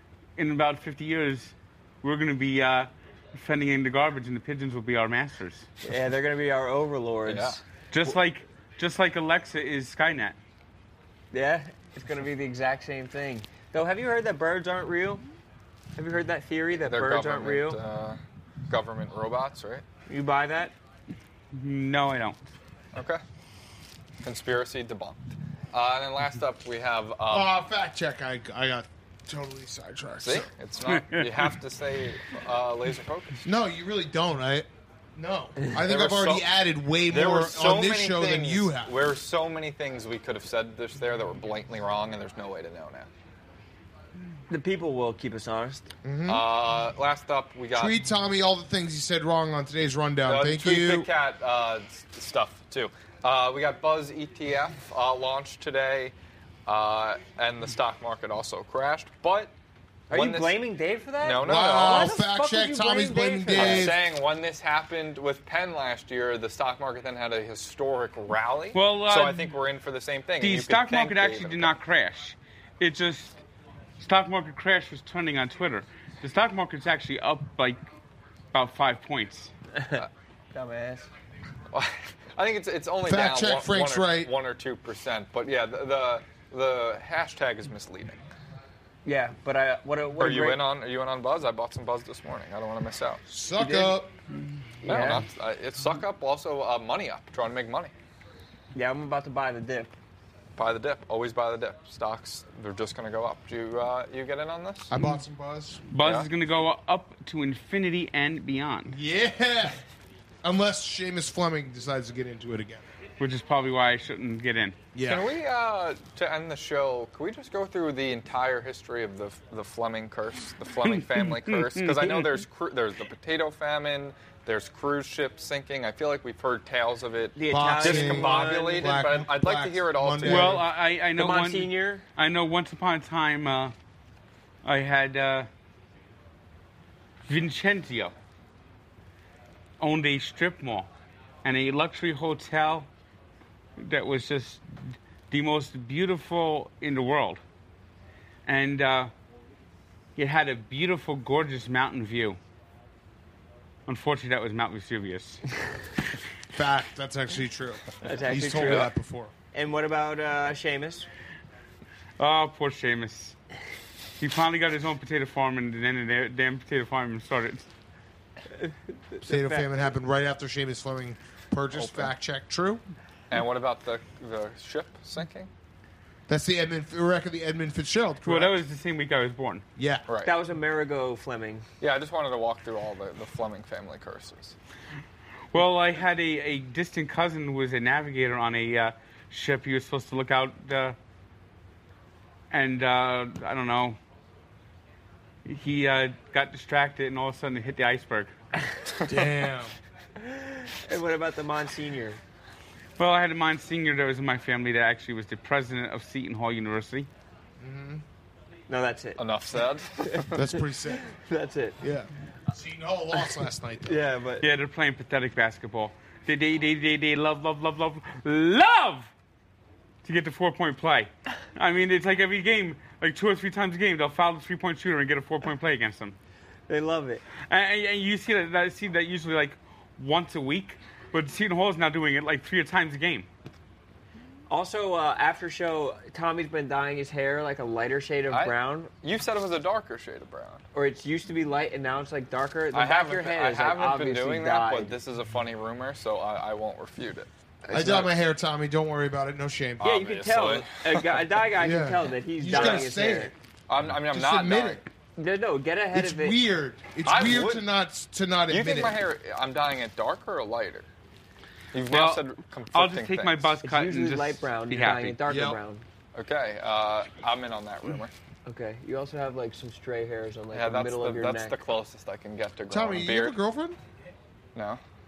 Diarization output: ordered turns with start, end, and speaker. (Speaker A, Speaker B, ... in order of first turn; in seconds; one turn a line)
Speaker A: 0.4-5.7
Speaker B: 5.8-8.2
Speaker C: 7.3-7.6
Speaker A: 7.9-10.4
Speaker B: 11.3-15.2
Speaker B: 16.0-17.8
Speaker C: 16.8-19.9
Speaker B: 20.1-20.7
Speaker A: 21.5-22.4
Speaker C: 22.9-23.2
Speaker C: 24.2-27.5
Speaker D: 27.3-30.5
Speaker C: 30.2-33.5
Speaker A: 30.9-31.6
Speaker D: 33.5-39.0
Speaker C: 35.8-36.5
Speaker C: 37.1-43.1
Speaker B: 44.5-45.9
Speaker D: 46.0-46.5
Speaker C: 46.3-48.0
Speaker D: 47.7-51.1
Speaker C: 50.2-56.1
Speaker C: 56.7-59.5
Speaker B: 60.1-63.9
Speaker C: 60.1-60.7
Speaker C: 61.2-62.2
Speaker D: 61.4-64.0
Speaker C: 63.5-71.8
Speaker A: 68.8-69.6
Speaker A: 70.4-73.4
Speaker A: 74.0-77.8
Speaker A: 78.5-79.5
Speaker B: 79.8-80.0
Speaker B: 80.5-81.1
Speaker C: 81.7-88.2
Speaker D: 83.1-84.3
Speaker B: 89.0-90.7
Speaker C: 90.2-93.2
Speaker D: 93.3-94.1
Speaker B: 93.6-94.0
Speaker B: 94.8-95.3
Speaker C: 94.8-97.9
Speaker B: 98.7-99.9
Speaker C: 100.6-104.9
Speaker D: 104.9-105.8
Speaker A: 105.9-109.0
Speaker C: 106.0-106.3
Speaker D: 108.9-109.8
Speaker D: 110.4-112.9
Speaker A: 113.2-114.8
Speaker D: 114.9-115.3
Speaker C: 115.0-130.6
Speaker A: 120.9-122.4
Speaker B: 127.4-128.8
Speaker D: 127.5-130.7
Speaker A: 130.2-133.7
Speaker B: 131.2-132.0
Speaker A: 134.6-135.5
Speaker A: 137.3-138.1
Speaker A: 139.8-140.9
Speaker A: 141.4-142.9
Speaker A: 143.8-147.4
Speaker A: 148.5-149.1
Speaker A: 150.2-152.4
Speaker A: 153.9-155.4
Speaker D: 156.5-159.3
Speaker B: 158.0-158.9
Speaker B: 159.5-161.1
Speaker A: 162.2-163.4
Speaker A: 164.2-167.7
Speaker B: 168.6-169.8
Speaker D: 169.2-172.8
Speaker C: 171.7-172.1
Speaker C: 173.3-175.5
Speaker D: 176.3-178.6
Speaker A: 178.2-179.6
Speaker D: 179.8-180.1
Speaker C: 180.1-180.3
Speaker B: 180.2-181.7
Speaker C: 181.8-184.6
Speaker A: 185.5-191.0
Speaker A: 192.5-194.0
Speaker A: 195.4-198.3
Speaker D: 199.1-199.8
Speaker B: 200.2-202.2
Speaker A: 203.0-207.1
Speaker D: 207.6-208.0
Speaker B: 208.7-209.2
Speaker C: 209.2-210.4
Speaker B: 210.0-211.8
Speaker D: 210.3-211.1
Speaker D: 211.8-214.1
Speaker B: 213.8-214.5
Speaker A: 214.4-219.1
Speaker A: 220.0-226.2
Speaker B: 226.7-227.2
Speaker A: 227.5-233.3
Speaker B: 234.5-238.9
Speaker C: 238.3-240.6
Speaker B: 240.8-244.9
Speaker C: 242.7-247.3
Speaker B: 247.7-248.1
Speaker D: 247.7-249.9
Speaker C: 249.8-251.1
Speaker B: 249.8-253.3
Speaker D: 251.6-253.3
Speaker C: 252.5-252.9
Speaker C: 253.7-254.8
Speaker D: 254.0-254.9
Speaker B: 255.2-256.4
Speaker D: 255.9-259.0
Speaker C: 257.1-257.7
Speaker C: 258.5-260.9
Speaker C: 261.7-263.5
Speaker A: 261.9-265.2
Speaker B: 263.6-265.9
Speaker D: 265.3-265.6
Speaker C: 266.1-268.1
Speaker B: 268.4-271.6
Speaker C: 270.5-273.4
Speaker D: 272.7-273.8
Speaker C: 274.6-274.8